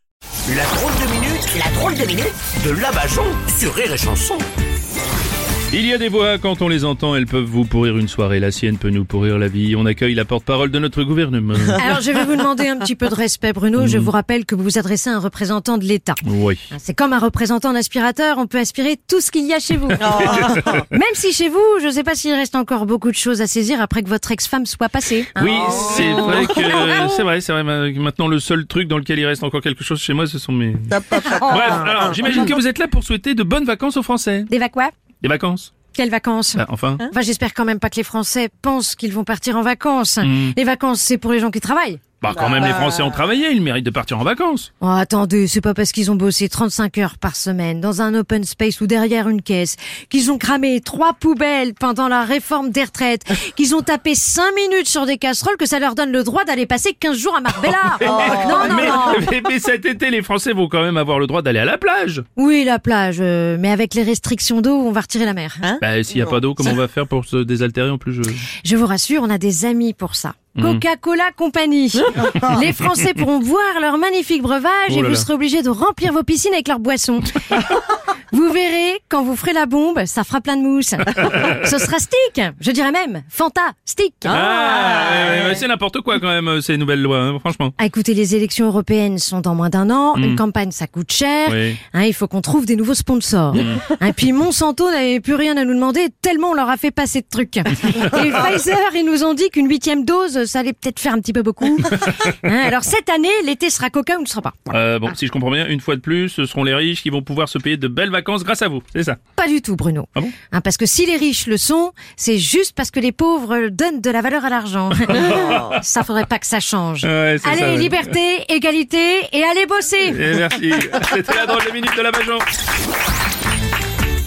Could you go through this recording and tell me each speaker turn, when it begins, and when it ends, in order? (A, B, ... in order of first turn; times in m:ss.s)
0:00.5-0:04.5 A
0:05.7-0:11.9 B
0:11.8-0:27.1 C
0:13.8-0:14.1 B
0:16.2-0:16.6 B
0:20.1-0:20.8 B
0:25.4-0:34.5 B
0:31.2-0:31.5 C
0:34.5-0:34.9 C
0:35.2-0:35.7 B
0:35.9-0:42.1 C
0:36.6-0:37.1 B
0:40.2-0:40.6 B
0:42.2-0:44.7 B
0:44.8-0:59.3 C
0:57.8-1:02.2 B
1:02.4-1:05.8 C
1:05.8-1:08.5 B
1:08.6-1:24.5 C
1:10.6-1:10.8 B
1:14.9-1:15.3 B
1:24.2-1:27.8 B
1:27.8-1:44.7 C
1:30.2-1:30.4 B
1:31.5-1:31.8 B
1:33.5-1:33.9 B
1:44.7-1:49.2 B
1:49.4-2:00.2 C
1:55.0-1:55.8 B
1:57.0-1:58.1 B
2:00.0-2:02.4 B